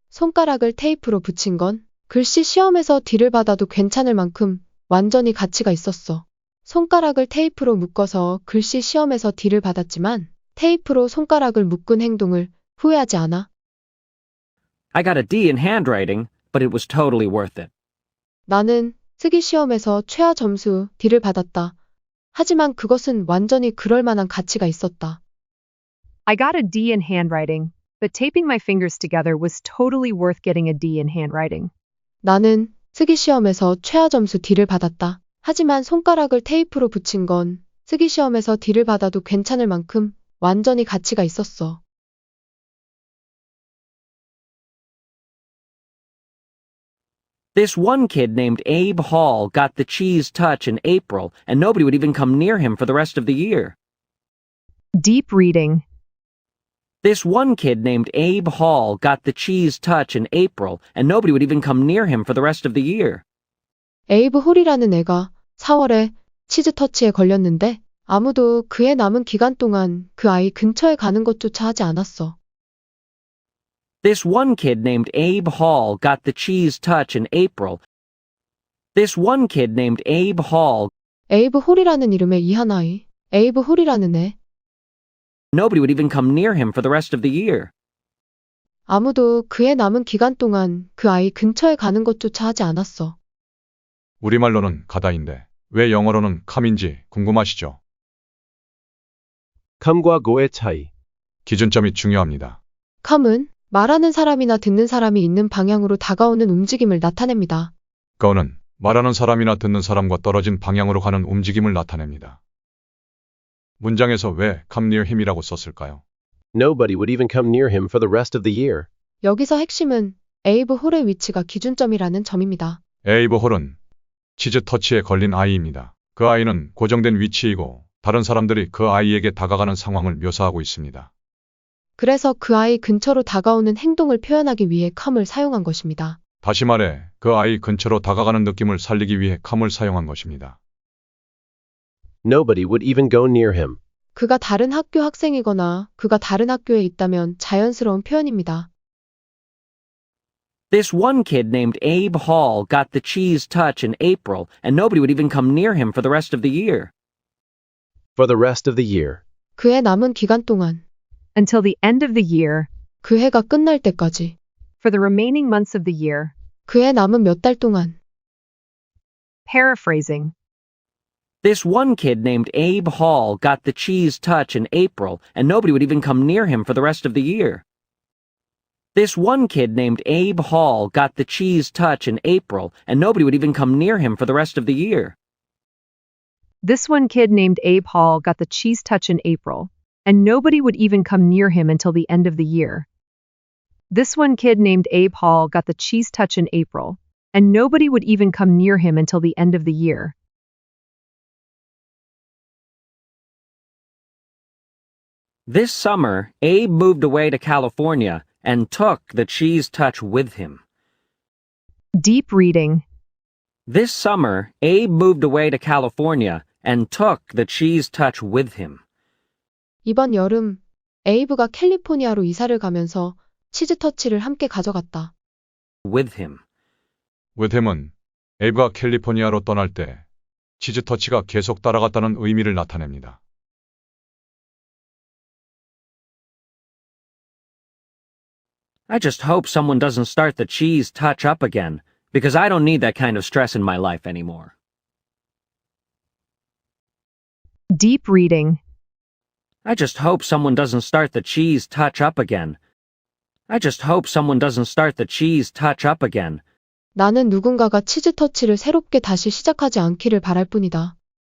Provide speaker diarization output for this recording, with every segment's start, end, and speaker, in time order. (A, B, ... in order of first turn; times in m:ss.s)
0:00.1-0:13.5 A
0:14.9-0:17.7 B
0:18.5-0:21.8 A
0:22.3-0:25.2 A
0:26.3-0:31.7 C
0:32.2-0:41.8 A
0:47.6-0:53.8 B
0:55.0-0:55.8 C
0:57.0-1:03.2 B
1:04.1-1:12.4 A
1:14.0-1:17.8 B
1:19.0-1:20.9 B
1:21.3-1:24.4 A
1:25.5-1:27.7 B
1:28.9-1:33.2 A
1:34.2-1:37.8 D
1:39.8-1:40.9 E
1:41.5-1:42.6 D
1:43.0-1:47.7 A
1:48.2-1:52.4 D
1:53.8-1:56.0 D
1:56.5-1:58.9 E
1:59.2-2:02.8 A
2:03.0-2:03.8 D
2:04.4-2:11.1 D
2:12.0-2:16.2 A
2:16.4-2:20.6 D
2:22.2-2:23.8 E
2:24.2-2:28.7 A
2:30.7-2:36.9 B
2:38.2-2:39.2 E
2:39.6-2:40.8 A
2:41.4-2:42.7 C
2:43.0-2:44.4 A
2:44.8-2:46.3 C
2:46.7-2:48.0 A
2:49.5-2:50.3 C
2:51.4-2:57.6 B
2:59.0-3:05.2 B
3:06.6-3:12.9 C
3:13.9-3:20.1 C
3:25.5-3:30.6 B
3:32.0-3:32.8 C
3:33.7-3:38.8 B
3:39.9-3:45.1 A
3:45.8-3:46.4 B
3:47.4-3:50.0 D
3:50.6-3:53.2 D
3:58.9-4:04.5 B
4:07.7-4:08.6 C
4:09.6-4:12.6 B
4:13.5-4:16.4 B
4:17.0-4:21.0 A